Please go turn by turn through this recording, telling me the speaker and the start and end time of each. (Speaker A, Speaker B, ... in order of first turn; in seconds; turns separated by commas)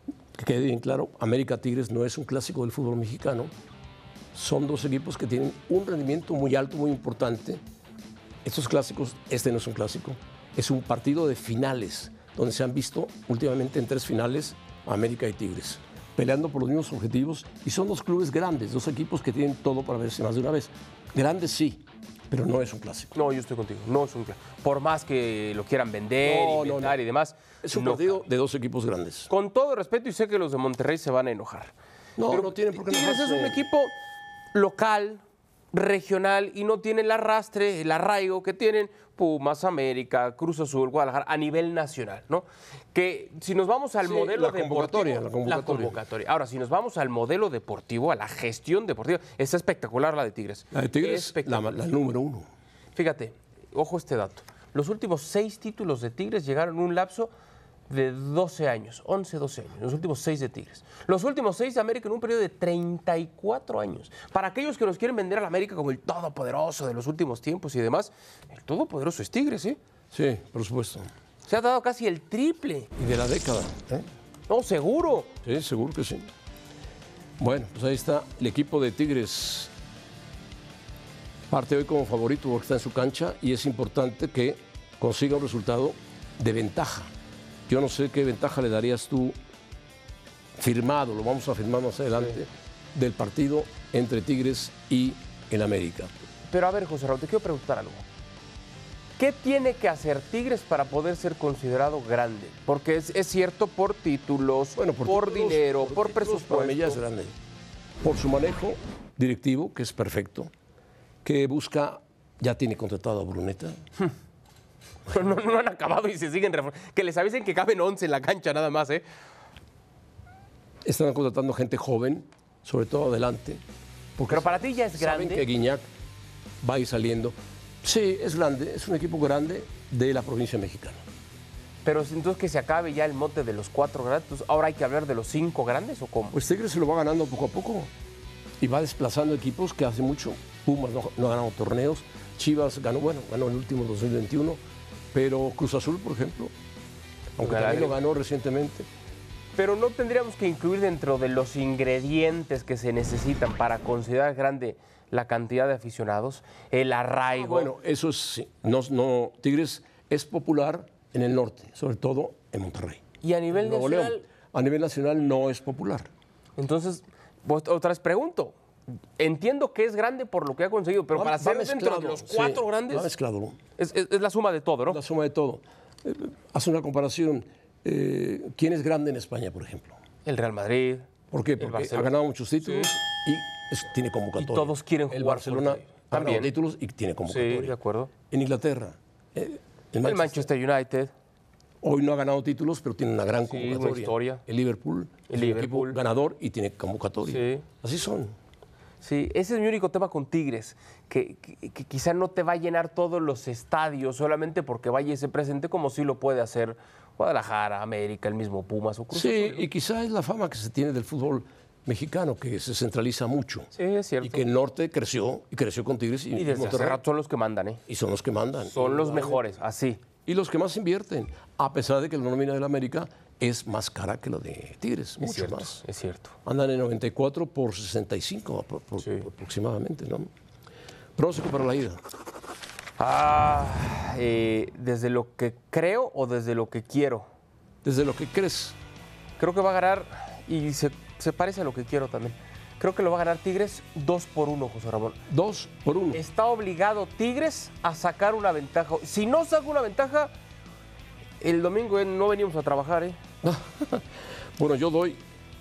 Speaker A: 0.3-3.5, Speaker A: 4.3-7.6, Speaker A: 8.4-23.2, Speaker B: 23.1-28.2, Speaker A: 26.2-27.0, Speaker A: 27.6-29.3, Speaker B: 29.3-31.7, Speaker A: 32.2-33.6, Speaker B: 32.3-33.9, Speaker B: 34.5-51.8, Speaker A: 44.0-46.0, Speaker A: 50.7-52.5, Speaker B: 53.0-57.3, Speaker B: 57.9-69.8, Speaker A: 70.1-71.1, Speaker B: 71.5-72.9, Speaker A: 73.0-74.1, Speaker B: 74.5-75.3, Speaker A: 75.4-76.3, Speaker A: 77.4-79.7, Speaker A: 81.5-87.1, Speaker A: 87.7-89.4, Speaker A: 90.6-96.1, Speaker B: 96.5-98.0, Speaker B: 99.2-107.0, Speaker A: 104.8-107.3, Speaker A: 108.0-110.5, Speaker A: 111.2-113.8, Speaker B: 115.1-119.0, Speaker A: 120.8-123.6, Speaker A: 124.2-125.9, Speaker B: 124.3-125.5, Speaker A: 126.6-131.0, Speaker B: 131.8-136.4, Speaker A: 136.3-137.9, Speaker A: 138.6-144.6, Speaker A: 145.1-146.5, Speaker A: 147.4-148.9, Speaker B: 147.4-148.0, Speaker B: 149.6-157.7, Speaker A: 157.3-166.1, Speaker B: 163.2-164.2, Speaker B: 166.6-168.6, Speaker B: 169.2-173.1, Speaker A: 171.1-173.6, Speaker B: 173.8-175.0, Speaker A: 174.9-180.0, Speaker B: 180.2-181.1, Speaker A: 181.3-187.8, Speaker B: 181.6-182.9, Speaker B: 184.4-186.5, Speaker B: 187.3-188.1, Speaker A: 188.3-190.5, Speaker B: 190.0-191.1, Speaker A: 191.8-198.3, Speaker B: 193.5-194.4, Speaker B: 195.3-196.0, Speaker B: 197.2-197.6, Speaker B: 199.0-209.7, Speaker A: 209.1-217.0, Speaker B: 213.8-214.4, Speaker B: 216.3-217.8, Speaker A: 217.9-219.5, Speaker B: 218.7-220.0, Speaker A: 220.2-225.8, Speaker B: 225.2-226.3, Speaker A: 226.4-230.3, Speaker B: 229.0-229.2, Speaker A: 231.2-232.0, Speaker B: 233.0-237.3, Speaker A: 237.8-238.8, Speaker B: 239.4-245.2, Speaker A: 245.3-246.2, Speaker B: 246.1-250.3, Speaker B: 251.4-253.2, Speaker A: 253.4-255.2